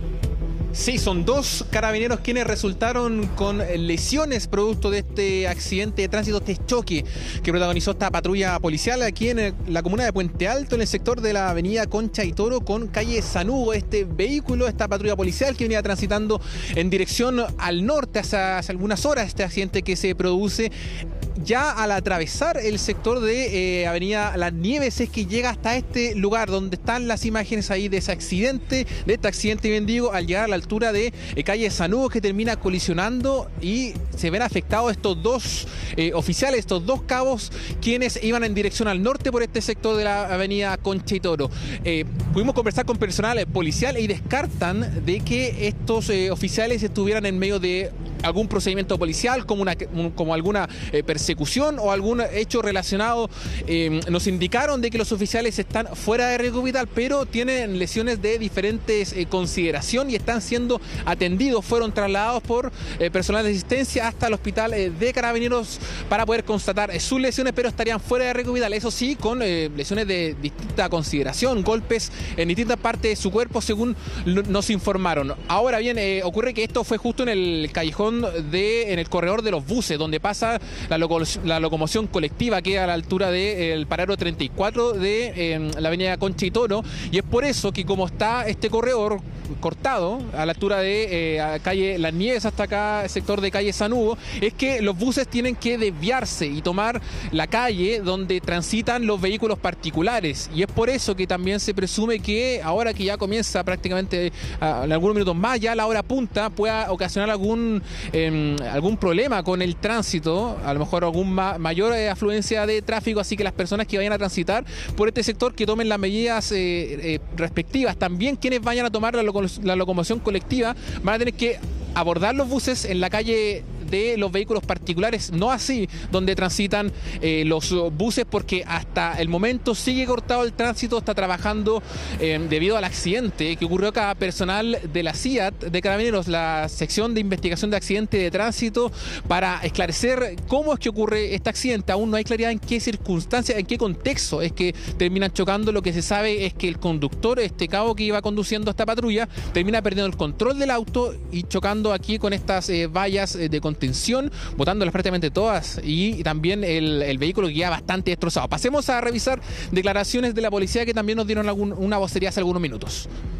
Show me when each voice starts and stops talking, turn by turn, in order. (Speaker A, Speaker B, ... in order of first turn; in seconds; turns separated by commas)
Speaker A: 0.7-20.7, Speaker A: 21.4-163.1